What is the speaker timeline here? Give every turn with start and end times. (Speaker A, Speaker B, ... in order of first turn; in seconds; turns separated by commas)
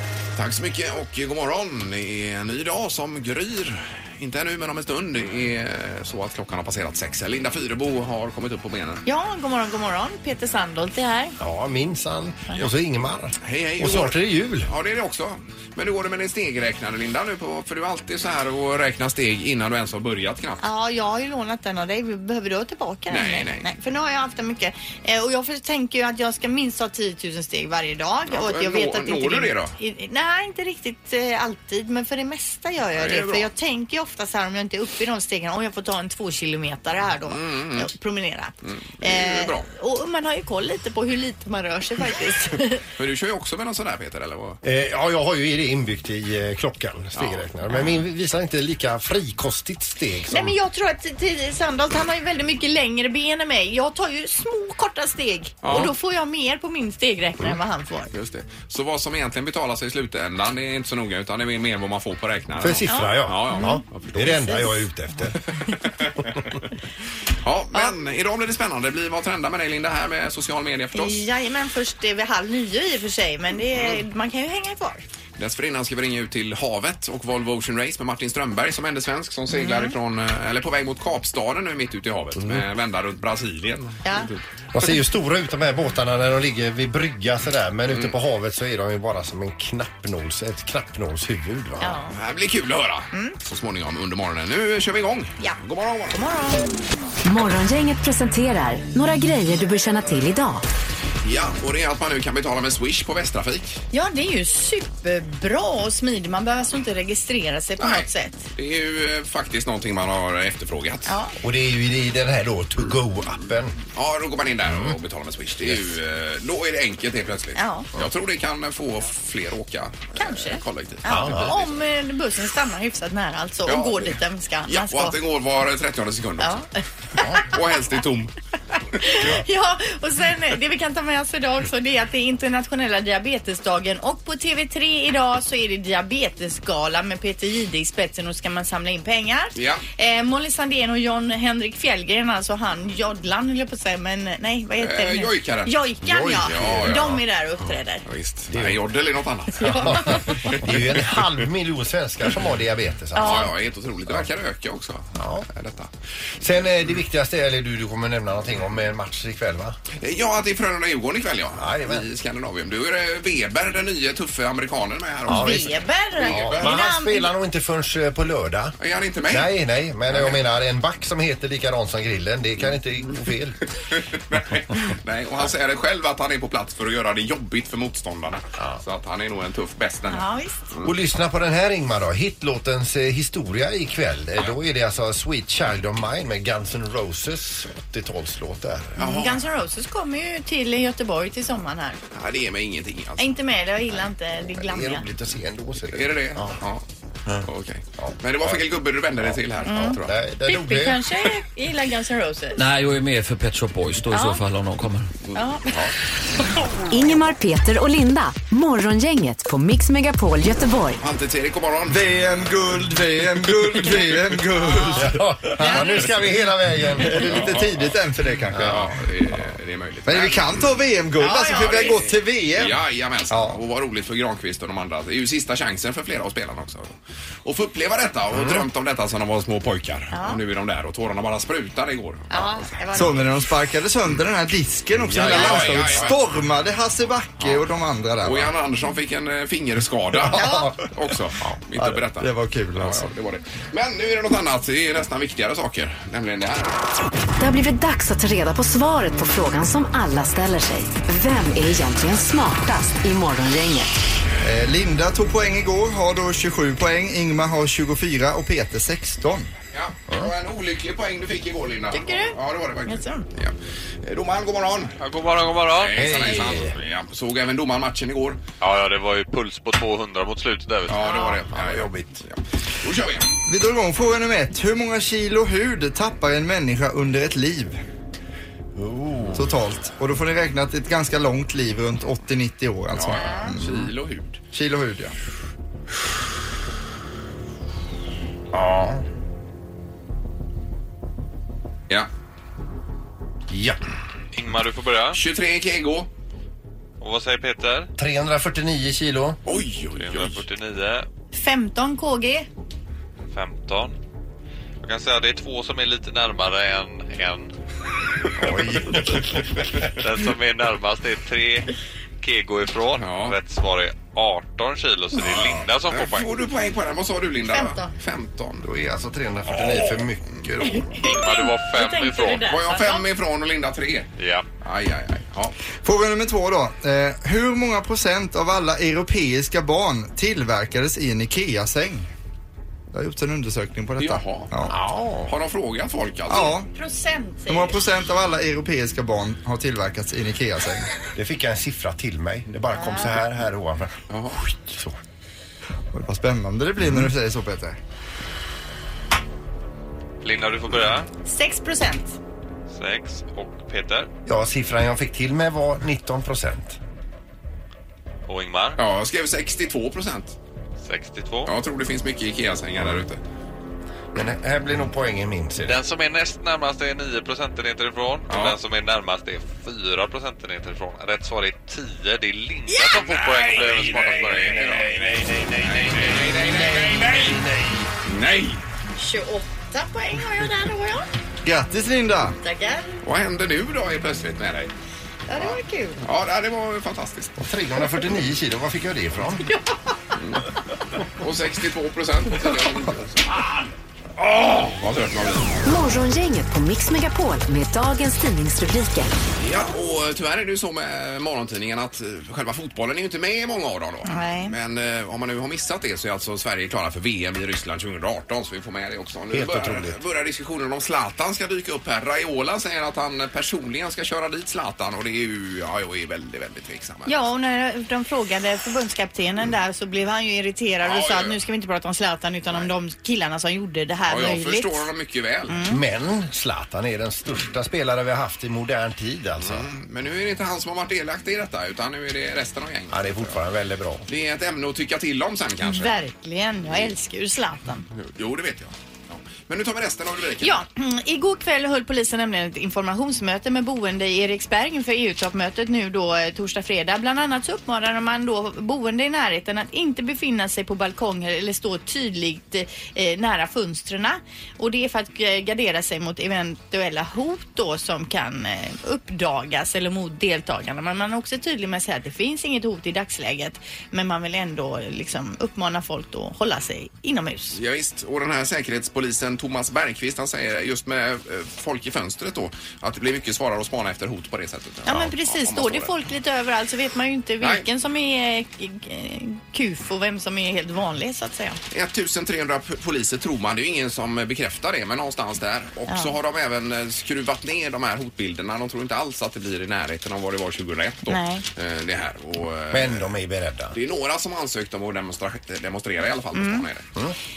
Speaker A: 0.3-9.0, Speaker B: 9.1-11.4, Speaker C: 11.4-14.7, Speaker A: 13.4-20.6, Speaker B: 20.6-42.8, Speaker A: 23.1-23.7, Speaker A: 28.3-29.8, Speaker A: 33.0-33.5, Speaker A: 37.3-37.9, Speaker A: 38.6-39.7, Speaker A: 43.0-44.6, Speaker C: 44.6-50.6, Speaker A: 47.2-47.5, Speaker B: 50.3-58.1, Speaker A: 55.6-55.9, Speaker A: 58.1-64.6, Speaker C: 62.6-65.4, Speaker B: 62.9-64.7, Speaker A: 66.0-66.5, Speaker A: 67.4-71.2, Speaker B: 71.0-75.0, Speaker A: 75.4-84.4, Speaker B: 79.5-79.9, Speaker B: 84.0-84.3, Speaker C: 84.7-92.0, Speaker A: 87.9-88.1, Speaker B: 91.8-92.2, Speaker A: 92.2-96.2, Speaker B: 96.1-96.7, Speaker D: 97.2-100.6, Speaker A: 101.2-103.8, Speaker B: 103.9-108.4, Speaker A: 107.8-111.1, Speaker B: 111.1-111.3, Speaker C: 111.4-113.8, Speaker A: 114.0-121.7, Speaker C: 114.7-115.0, Speaker B: 117.6-117.9, Speaker B: 120.2-125.2, Speaker C: 121.1-121.5, Speaker A: 123.7-126.6, Speaker B: 127.2-127.5, Speaker A: 127.3-128.3, Speaker B: 129.0-148.0, Speaker A: 139.6-139.8, Speaker A: 144.8-147.2, Speaker C: 146.2-147.1, Speaker A: 148.0-151.2, Speaker C: 148.5-148.8, Speaker B: 149.6-150.5, Speaker C: 149.7-153.5, Speaker B: 153.2-153.5, Speaker A: 153.2-155.9, Speaker C: 155.2-155.5, Speaker C: 156.4-159.8, Speaker A: 160.0-166.8, Speaker C: 161.6-162.1, Speaker C: 165.3-165.7, Speaker B: 165.3-167.3, Speaker C: 166.2-168.8, Speaker A: 168.8-169.5, Speaker C: 169.3-173.6, Speaker A: 170.1-170.4, Speaker A: 173.9-180.9, Speaker B: 180.1-180.7, Speaker C: 180.8-189.1, Speaker A: 189.0-189.4, Speaker B: 189.0-192.0, Speaker A: 192.1-193.4, Speaker B: 193.2-195.1, Speaker C: 194.5-196.6, Speaker A: 195.9-196.8, Speaker C: 197.3-198.6, Speaker A: 197.4-200.2, Speaker C: 199.2-201.0, Speaker B: 199.7-202.6, Speaker E: 202.6-205.1, Speaker B: 204.1-204.4, Speaker B: 205.3-205.9, Speaker D: 206.9-211.0, Speaker A: 211.0-212.0, Speaker F: 211.9-216.1, Speaker A: 213.8-214.2, Speaker B: 214.6-215.0, Speaker C: 215.0-217.7, Speaker B: 215.6-216.0, Speaker F: 217.0-218.8, Speaker A: 217.3-217.6, Speaker C: 218.5-218.9, Speaker A: 218.6-220.6, Speaker F: 220.1-222.8, Speaker B: 221.2-222.0, Speaker A: 221.5-232.8, Speaker F: 223.3-223.6, Speaker B: 230.1-230.4, Speaker B: 232.3-233.2, Speaker F: 232.9-238.5, Speaker C: 235.0-236.0, Speaker A: 235.1-236.2, Speaker A: 238.2-246.8, Speaker B: 240.3-240.7, Speaker F: 240.4-240.7, Speaker F: 242.2-243.1, Speaker D: 247.4-254.0, Speaker F: 254.4-259.5, Speaker A: 259.7-264.9, Speaker B: 261.9-263.3, Speaker G: 265.0-266.1, Speaker A: 265.7-268.4, Speaker C: 265.9-266.8, Speaker G: 268.6-271.1, Speaker A: 270.9-273.3, Speaker B: 271.0-271.4, Speaker C: 271.5-272.2, Speaker F: 273.5-277.8, Speaker C: 278.8-279.5, Speaker F: 279.3-283.7, Speaker A: 282.9-284.4, Speaker B: 283.2-283.5, Speaker F: 284.5-285.1, Speaker C: 288.5-289.0, Speaker C: 293.5-293.8, Speaker G: 294.3-295.2, Speaker A: 295.1-296.1, Speaker G: 297.0-297.9, Speaker C: 298.0-299.4, Speaker A: 299.5-300.4, Speaker G: 299.9-301.1, Speaker B: 301.3-302.5, Speaker G: 303.3-304.0, Speaker G: 304.8-307.5, Speaker C: 308.3-309.4, Speaker G: 309.9-316.3, Speaker A: 313.0-313.4, Speaker A: 315.2-318.7, Speaker B: 317.5-317.9, Speaker C: 318.6-320.9, Speaker A: 319.5-320.0, Speaker B: 320.7-323.1, Speaker G: 321.0-322.4, Speaker A: 322.4-324.1, Speaker G: 324.2-324.5, Speaker A: 324.6-325.6, Speaker F: 325.8-332.1, Speaker F: 332.9-334.7, Speaker A: 334.0-334.7, Speaker C: 334.7-335.3, Speaker A: 335.3-336.6, Speaker F: 336.3-336.7, Speaker B: 336.7-337.8, Speaker F: 337.5-340.9, Speaker C: 341.1-345.0, Speaker B: 342.8-343.1, Speaker A: 344.1-344.4, Speaker F: 345.9-347.8, Speaker G: 350.2-351.1, Speaker B: 351.2-352.2, Speaker G: 352.7-354.1, Speaker C: 354.3-356.8, Speaker G: 358.3-358.8, Speaker A: 358.8-360.4, Speaker G: 360.8-361.5, Speaker A: 361.5-363.2, Speaker C: 364.1-365.8, Speaker G: 365.7-375.1, Speaker A: 368.3-368.6, Speaker B: 372.7-373.0, Speaker A: 373.0-377.4, Speaker C: 376.2-377.9, Speaker A: 378.0-378.6, Speaker B: 379.0-381.1, Speaker F: 381.4-382.4, Speaker B: 382.4-383.0, Speaker A: 383.0-384.7, Speaker B: 385.3-386.0, Speaker A: 385.3-387.4, Speaker C: 387.4-389.4, Speaker B: 389.5-389.9, Speaker A: 390.2-390.4, Speaker A: 391.2-393.6, Speaker A: 394.2-395.6, Speaker D: 395.6-399.1, Speaker A: 399.4-417.1, Speaker B: 404.1-404.6, Speaker C: 409.3-410.0, Speaker B: 417.1-424.9, Speaker A: 420.8-421.4, Speaker A: 424.1-425.6, Speaker B: 425.5-425.8, Speaker C: 425.7-429.7, Speaker A: 429.4-433.4, Speaker C: 432.9-434.1, Speaker A: 434.1-435.9, Speaker B: 435.6-437.9, Speaker A: 437.9-440.6, Speaker B: 440.4-467.6, Speaker A: 467.5-475.9, Speaker B: 474.9-481.6, Speaker A: 481.7-493.1, Speaker B: 491.1-491.4, Speaker C: 492.7-493.8, Speaker A: 493.7-496.9, Speaker B: 496.4-496.6